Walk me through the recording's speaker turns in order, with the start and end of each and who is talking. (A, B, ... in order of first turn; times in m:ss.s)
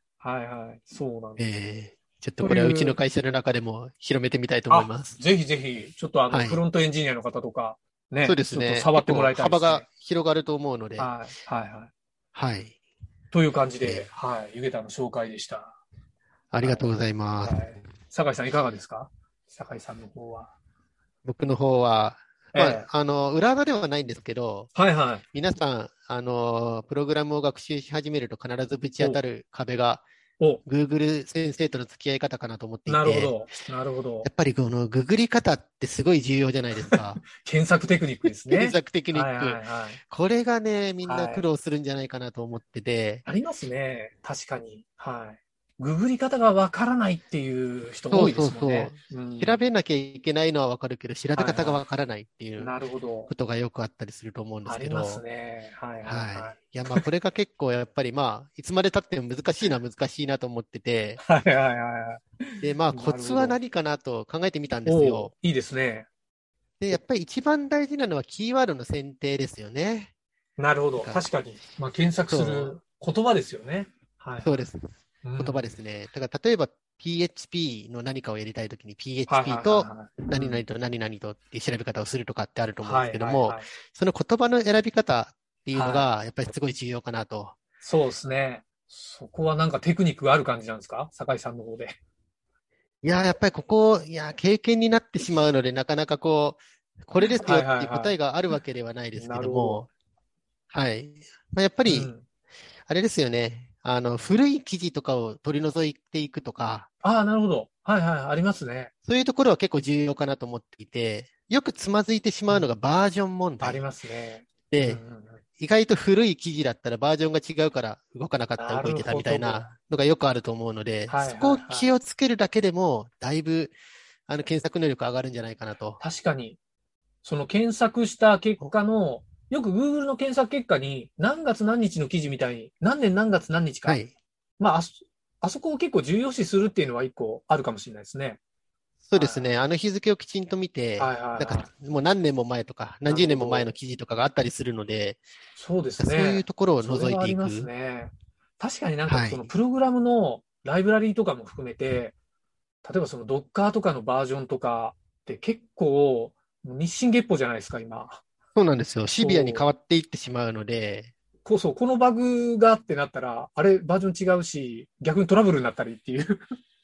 0:00.2-0:01.4 A
0:01.4-0:05.2 B
0:02.4-0:03.0 A
0:04.7-0:09.8 A
0:06.3-0:06.6 B
0:08.2-0:11.1 B
0:11.0-0:11.9 A
0:12.3-0:12.8 B
0:13.3-0:15.8 A
0:13.8-0:14.1 B
0:16.5-0:17.8 B
0:16.6-0:16.9 A
0:17.4-0:20.5 A
0:21.2-0:24.7 B
0:22.5-0:22.9 A
0:24.8-0:25.2 A
0:25.3-0:30.0 B
0:30.6-0:33.4 B
0:32.9-0:34.3 A
0:34.2-0:37.2 B
0:36.9-0:40.0 A
0:38.5-0:43.2 B
0:41.0-0:41.5 A
0:43.2-0:49.6 A
0:48.1-0:52.7 B
0:51.4-0:51.8 A
0:52.6-0:53.3 A
0:53.3-0:55.2 B
0:54.6-0:57.0 A
0:56.0-1:01.2 B
1:01.2-1:03.6 A
1:02.6-1:05.3 B
1:04.8-1:06.1 A
1:06.8-1:10.1 B
1:10.6-1:14.6 A
1:11.0-1:11.3 B
1:12.3-1:12.8 B
1:14.4-1:27.6 B
1:15.2-1:15.6 A
1:19.3-1:20.6 A
1:22.8-1:23.7 A
1:25.7-1:26.1 A
1:27.8-1:32.0 A
1:33.0-1:39.9 B
1:37.2-1:38.2 A
1:39.2-1:39.9 A
1:40.7-1:42.1 B
1:41.9-1:42.2 A
1:42.9-1:46.9 B
1:47.0-1:48.9 A
1:49.0-1:53.8 B
1:53.6-1:55.4 A
1:54.7-1:55.0 B
1:55.6-2:03.8 B
1:58.6-1:59.7 A
2:01.1-2:01.9 A
2:04.3-2:06.0 B
2:06.0-2:06.6 A
2:07.2-2:14.0 A
2:13.8-2:14.1 B
2:14.6-2:18.4 A
2:19.0-2:25.2 B
2:19.2-2:19.6 A
2:21.0-2:21.7 A
2:23.0-2:23.7 A
2:25.6-2:32.2 A
2:26.0-2:27.7 B
2:29.1-2:29.5 B
2:32.8-2:38.2 A
2:38.6-2:41.1 B
2:39.2-2:39.7 A
2:41.4-2:46.4 A